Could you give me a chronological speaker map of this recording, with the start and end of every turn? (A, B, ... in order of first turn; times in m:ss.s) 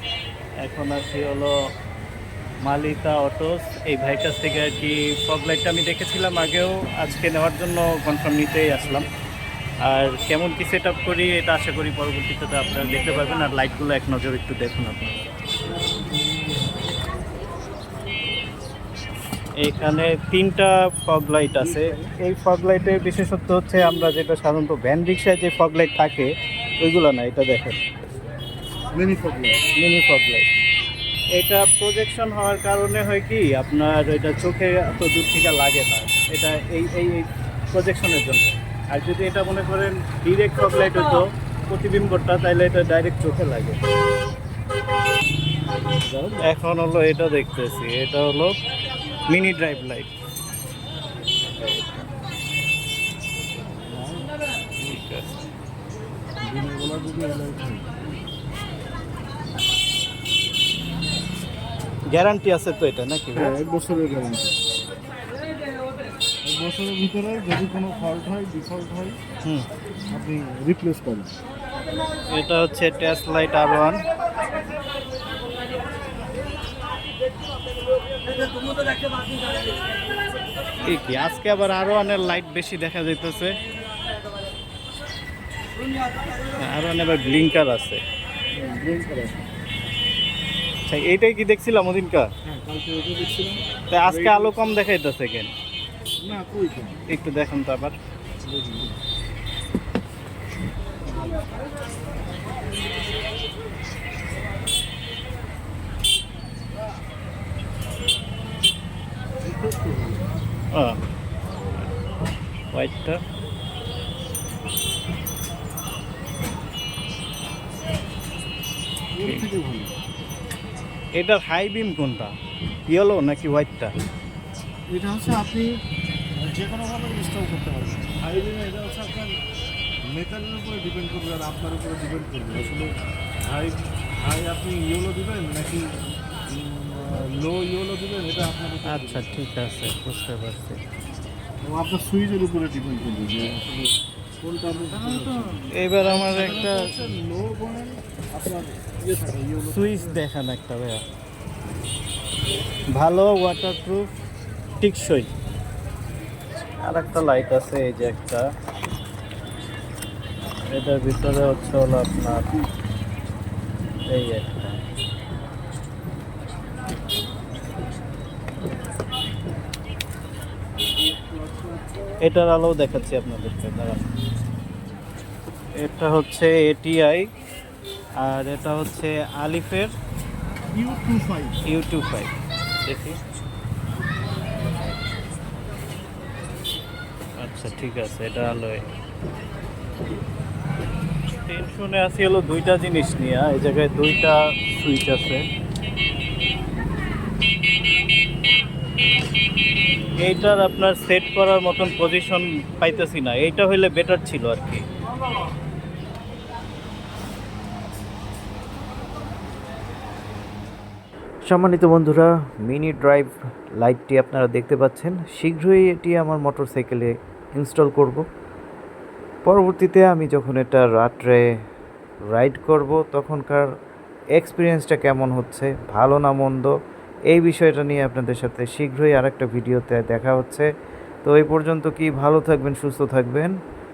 0:00.6-0:01.6 A
0:02.6-0:09.1 A
0:09.8-0:15.3 A
0:19.6-0:27.8 A
0:21.6-0:22.1 B
0:28.9-0:29.6 B
0:29.8-0:30.5 A
0:31.4-0:43.8 A
0:46.1-0:46.5 B
0:46.4-0:48.6 A
0:49.3-0:50.1 A
0:53.9-0:54.3 B
0:54.8-0:55.4 A
0:56.5-0:57.9 B
1:02.1-1:03.6 A
1:03.4-1:04.6 B
1:06.4-1:09.2 B
1:09.4-1:09.7 A
1:10.1-1:11.4 B
1:12.3-1:14.0 A
1:20.8-1:23.6 A
1:26.6-1:28.0 A
1:28.5-1:29.4 B
1:30.9-1:32.3 A
1:32.4-1:34.7 B
1:33.9-1:35.5 A
1:36.2-1:37.0 B
1:37.1-1:38.0 A
1:38.4-1:39.0 B
1:41.1-1:41.5 B
1:49.4-1:50.2 B
1:50.7-1:51.0 A
1:52.7-1:53.2 A
1:59.1-2:00.0 B
2:01.2-2:02.3 A
2:02.9-2:03.9 A
2:04.9-2:05.8 B
2:06.4-2:09.3 B
2:10.1-2:16.0 B
2:16.5-2:19.2 B
2:18.8-2:20.8 A
2:21.6-2:30.2 B
2:25.2-2:26.9 A
2:29.7-2:31.0 A
2:33.0-2:34.1 A
2:34.8-2:35.3 A
2:36.8-2:38.4 A
2:40.7-2:42.7 A
2:44.1-2:44.8 A
2:51.0-2:52.0 B
2:52.2-2:54.1 A
2:55.8-2:57.3 A
2:58.2-2:59.9 A
3:00.7-3:01.6 B
3:01.6-3:03.2 A
3:07.4-3:08.9 A
3:11.4-3:15.5 A
3:20.2-3:24.8 A
3:31.5-3:38.2 C
3:39.5-3:41.4 C
3:42.3-3:43.7 C
3:44.4-3:46.8 C
3:47.3-3:50.7 C
3:51.2-3:53.5 C